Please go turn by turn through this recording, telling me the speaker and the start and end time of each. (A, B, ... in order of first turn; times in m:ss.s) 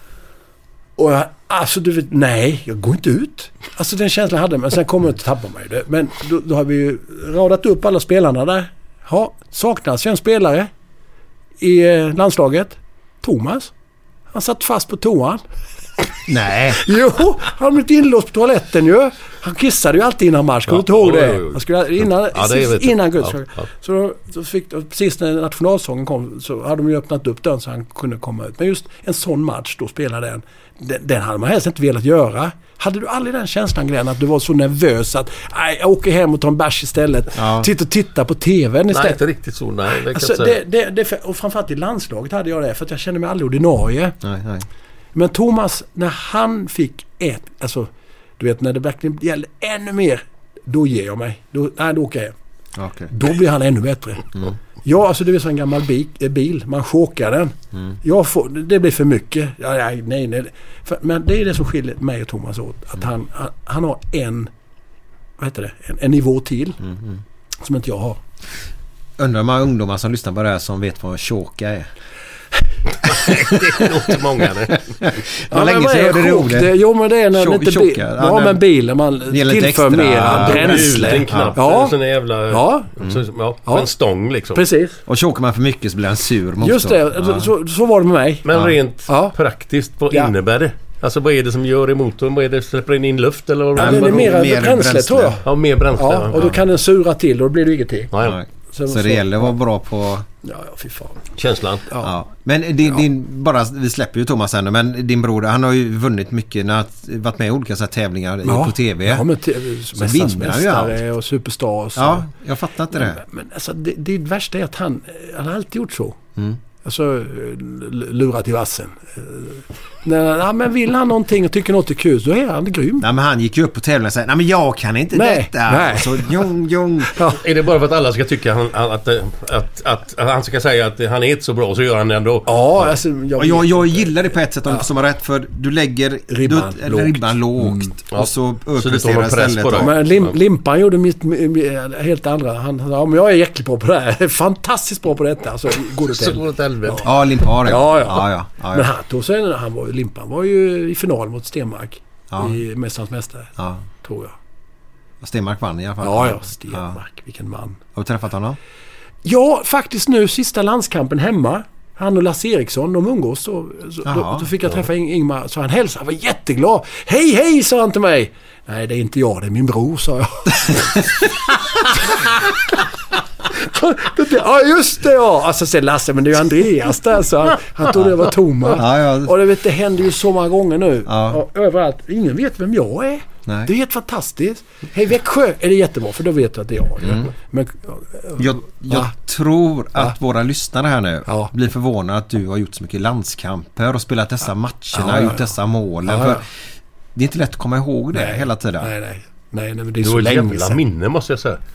0:01.0-0:10.7 A
0:11.6-0:13.7 A
0:14.3-0:15.4 A
0:16.3-0:16.8 B
0:16.8-0:39.2 A
0:20.7-0:23.6 C
0:37.4-0:37.7 B
0:38.9-0:40.6 C
0:40.0-0:44.2 A
0:44.2-0:44.7 B
0:45.2-0:52.3 A
0:52.8-0:53.1 B
0:53.1-0:54.3 A
0:54.8-1:04.5 A
1:05.4-1:06.8 A
1:06.9-1:07.2 B
1:07.6-1:08.2 A
1:09.2-1:11.9 B
1:13.1-1:15.1 C
1:13.2-1:13.8 B
1:15.1-1:16.8 B
1:15.5-1:22.0 A
1:17.3-1:18.6 B
1:19.3-1:21.6 B
1:20.3-1:24.6 C
1:22.5-1:22.9 A
1:24.5-1:25.0 A
1:25.1-1:27.5 B
1:26.6-1:28.5 A
1:28.4-1:34.3 C
1:29.1-1:29.3 A
1:33.8-1:35.4 B
1:33.8-1:35.4 A
1:35.4-1:36.5 C
1:36.0-1:38.1 A
1:38.1-1:38.4 C
1:38.2-1:40.3 B
1:38.7-1:39.6 A
1:40.4-1:41.2 A
1:41.4-1:41.9 C
1:42.0-1:49.3 B
1:48.4-1:52.3 A
1:49.9-1:51.0 B
1:52.0-1:53.2 B
1:53.0-1:56.2 A
1:56.8-2:03.1 A
2:03.0-2:07.2 B
2:05.1-2:06.5 A
2:07.1-2:07.4 A
2:07.4-2:12.8 C
2:12.5-2:14.1 A
2:13.4-2:20.0 B
2:16.3-2:17.9 A
2:18.1-2:20.2 C
2:19.8-2:27.1 A
2:26.0-2:27.3 C
2:27.0-2:28.9 B
2:27.6-2:34.4 A
2:32.3-2:32.6 B
2:35.2-2:37.0 B
2:36.0-2:37.8 A
2:38.0-2:38.6 B
2:39.2-2:51.0 A
2:44.1-2:44.5 B
2:53.5-3:09.1 A
2:58.7-2:59.4 B
3:01.1-3:01.4 B
3:07.0-3:07.3 B
3:08.4-3:16.4 B
3:11.3-3:11.5 A
3:14.9-3:15.5 A
3:16.1-3:16.4 A
3:17.2-3:18.9 B
3:18.1-3:20.8 A
3:20.0-3:21.6 C